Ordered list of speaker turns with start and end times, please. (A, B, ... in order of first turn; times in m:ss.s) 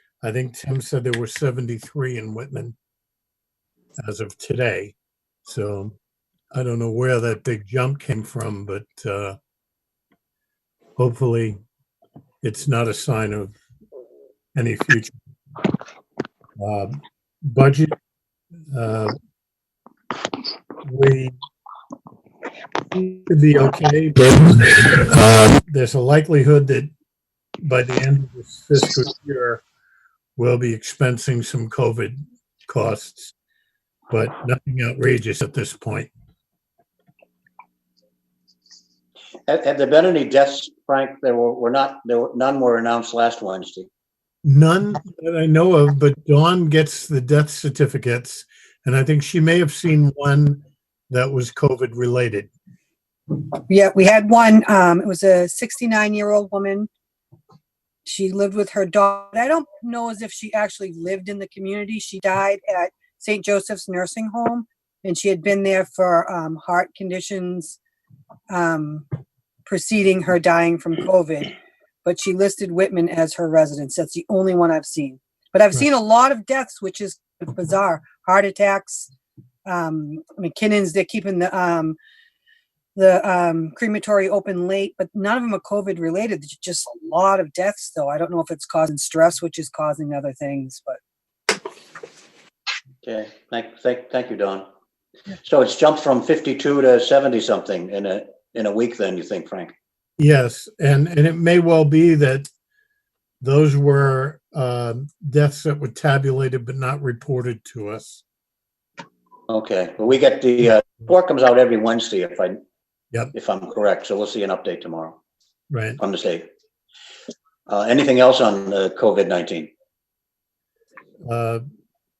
0:00.2-0:02.7 A
0:04.0-0:04.9 A
0:05.4-0:05.9 A
0:06.5-0:09.4 A
0:11.0-0:11.6 A
0:12.4-0:13.6 A
0:14.5-0:15.2 A
0:16.6-0:17.9 A
0:18.7-0:19.1 A
0:20.8-0:21.3 A
0:23.2-0:26.9 A
0:27.6-0:29.6 A
0:30.4-0:33.3 A
0:34.1-0:36.1 A
0:39.5-0:43.9 B
0:44.4-0:52.5 A
0:53.7-0:56.9 C
0:58.0-1:07.8 C
1:08.5-1:09.1 C
1:09.6-1:11.5 C
1:12.0-1:19.1 C
1:19.6-1:22.0 C
1:22.9-1:31.0 C
1:33.0-1:34.6 B
1:35.4-1:39.7 B
1:40.2-1:42.5 A
1:43.4-1:48.2 A
1:49.5-1:52.6 B
1:53.3-1:55.2 B
1:55.7-1:56.0 A
1:56.0-1:56.4 B
1:57.7-1:59.7 B
2:01.2-2:01.6 A